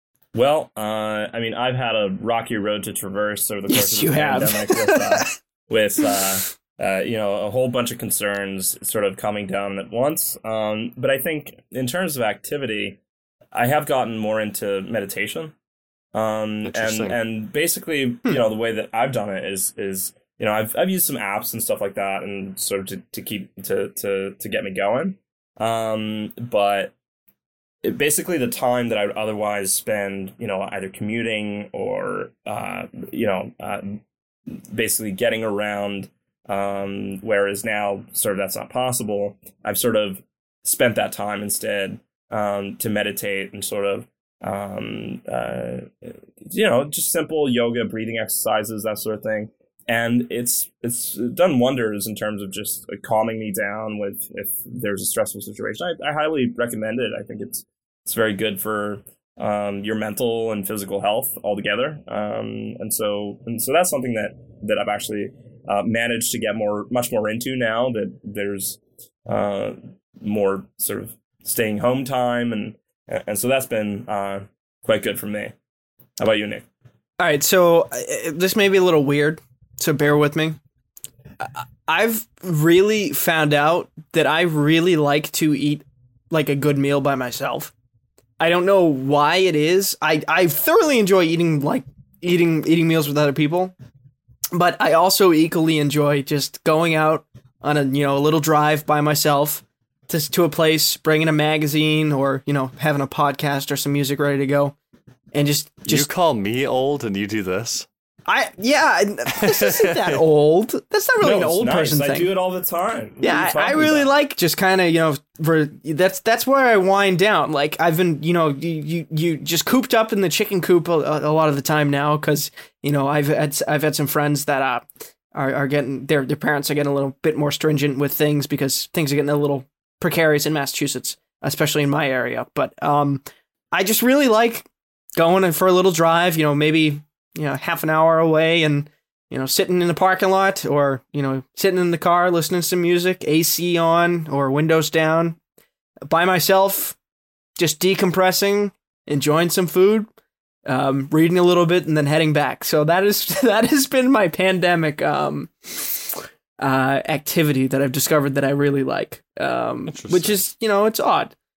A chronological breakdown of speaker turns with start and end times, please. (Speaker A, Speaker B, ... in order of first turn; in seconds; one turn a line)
Speaker A: 0.3-13.0
Speaker B: 3.7-5.3
Speaker A: 13.5-15.5
Speaker A: 16.1-26.9
Speaker C: 16.6-17.1
Speaker A: 27.8-75.5
Speaker A: 76.2-76.7
Speaker B: 77.2-80.6
Speaker B: 81.4-87.7
Speaker B: 88.4-93.7
Speaker B: 94.5-104.8
Speaker B: 105.3-106.1
Speaker C: 105.8-107.9
Speaker B: 108.3-112.3
Speaker C: 109.4-109.9
Speaker A: 111.2-114.1
Speaker B: 113.2-145.4
Speaker B: 146.1-147.0
Speaker B: 147.6-150.1
Speaker B: 150.7-161.3
Speaker C: 159.9-160.4